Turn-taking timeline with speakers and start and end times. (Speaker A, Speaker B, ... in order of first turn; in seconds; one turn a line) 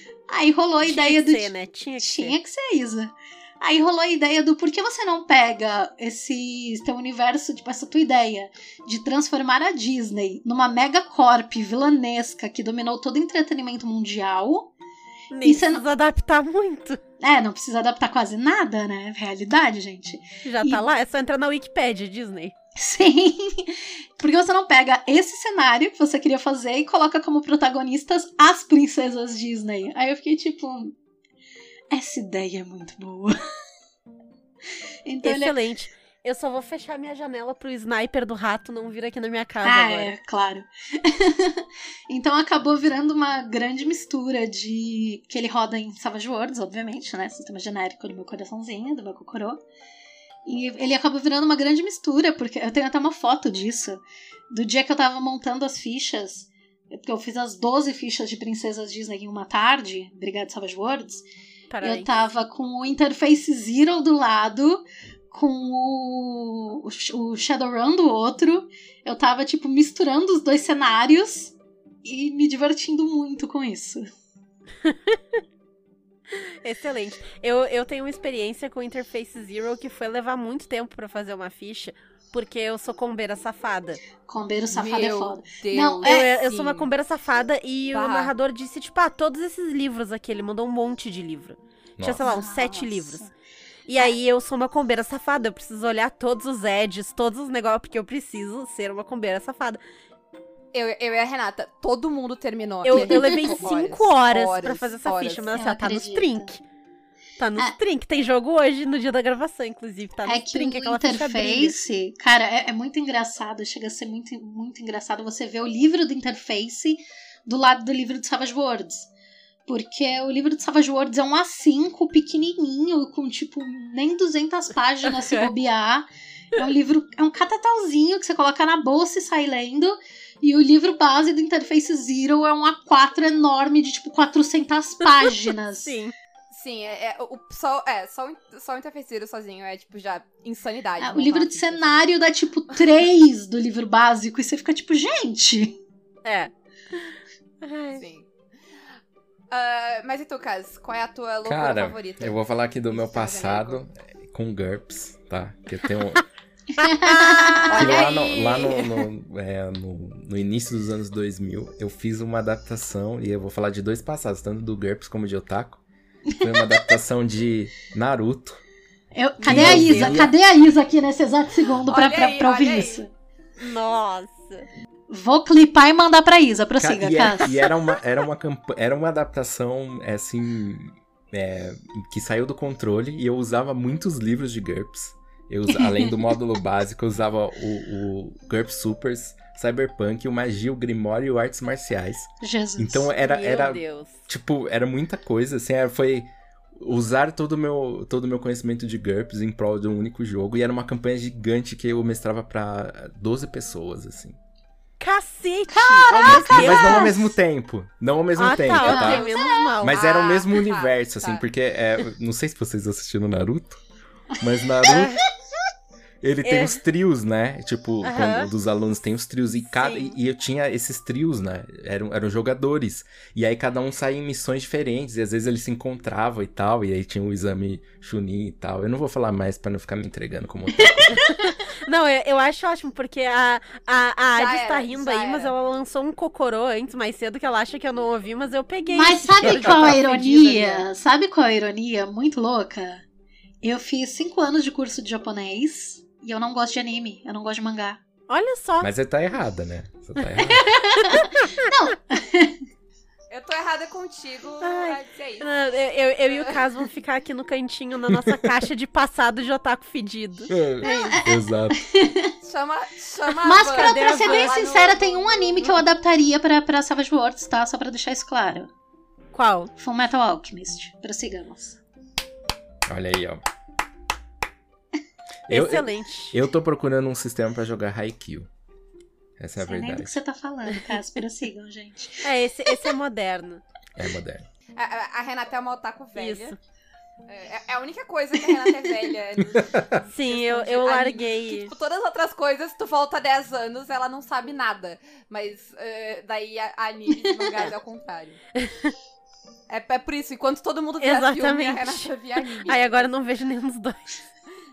Speaker A: 0.3-14.7
Speaker B: 0.8-2.4
Speaker B: 15.3-17.0
Speaker A: 15.4-15.8
Speaker A: 17.2-20.9
Speaker B: 20.4-22.5
Speaker A: 22.8-30.9
Speaker A: 31.9-33.4
Speaker A: 35.1-35.5
Speaker B: 35.2-40.1
Speaker A: 39.6-49.6
Speaker A: 50.5-61.3
Speaker B: 61.7-62.2
Speaker A: 61.8-74.0
Speaker B: 74.8-75.2
Speaker B: 76.3-84.0
Speaker A: 84.3-86.3
Speaker C: 84.7-86.9
Speaker B: 86.0-93.3
Speaker C: 87.9-88.3
Speaker D: 92.0-92.3
Speaker A: 92.2-93.3
Speaker B: 93.9-99.8
Speaker C: 100.7-105.5
Speaker B: 102.8-106.6
Speaker A: 102.9-103.7
Speaker A: 105.5-106.5
Speaker B: 107.4-111.8
Speaker A: 110.3-119.1
Speaker A: 119.7-135.9
Speaker B: 125.1-125.5
Speaker B: 135.0-136.1
Speaker C: 136.5-142.0
Speaker A: 141.0-145.8
Speaker B: 146.2-148.0
Speaker C: 147.9-148.3
Speaker C: 149.5-153.8
Speaker D: 151.4-156.2
Speaker A: 156.8-157.7
Speaker B: 156.9-158.1
Speaker C: 157.6-158.8
Speaker D: 157.7-165.8
Speaker D: 166.4-168.6
Speaker A: 166.4-166.8
Speaker A: 169.1-173.1
Speaker B: 169.4-170.3
Speaker D: 169.4-170.3
Speaker C: 171.9-173.1
Speaker B: 173.6-174.7
Speaker A: 175.1-177.6
Speaker D: 176.8-204.4
Speaker A: 185.8-186.1
Speaker A: 192.4-193.1
Speaker B: 193.2-194.3
Speaker B: 205.0-207.3
Speaker A: 205.7-207.2
Speaker D: 206.1-209.3
Speaker B: 208.4-210.0
Speaker A: 208.8-209.7
Speaker D: 209.8-213.8
Speaker C: 209.9-211.4
Speaker D: 214.4-215.2
Speaker B: 214.8-215.2
Speaker D: 216.2-231.2
Speaker B: 216.4-216.8
Speaker B: 218.0-218.5
Speaker B: 219.7-220.2
Speaker B: 231.1-240.8
Speaker C: 234.3-235.5
Speaker A: 238.9-243.0
Speaker D: 239.5-239.9
Speaker A: 243.6-248.0
Speaker B: 248.3-248.9
Speaker D: 248.8-250.7
Speaker A: 250.4-252.6
Speaker B: 251.0-251.3
Speaker C: 253.3-255.5
Speaker B: 254.6-261.2
Speaker C: 256.3-256.6
Speaker D: 258.1-258.5
Speaker D: 260.5-261.8
Speaker A: 260.8-262.3
Speaker C: 262.4-265.6
Speaker A: 263.4-268.7
Speaker B: 263.8-264.6
Speaker B: 269.3-269.7
Speaker A: 269.8-271.8
Speaker D: 272.9-273.4
Speaker D: 275.5-278.5
Speaker B: 275.5-276.4
Speaker D: 279.4-280.2
Speaker A: 279.6-282.9
Speaker B: 282.2-283.6
Speaker D: 284.0-284.5
Speaker C: 284.8-286.6
Speaker B: 286.2-286.6
Speaker C: 287.3-298.4
Speaker D: 289.5-289.9
Speaker B: 290.1-291.7
Speaker B: 298.6-298.9
Speaker C: 299.7-303.1
Speaker B: 301.0-304.3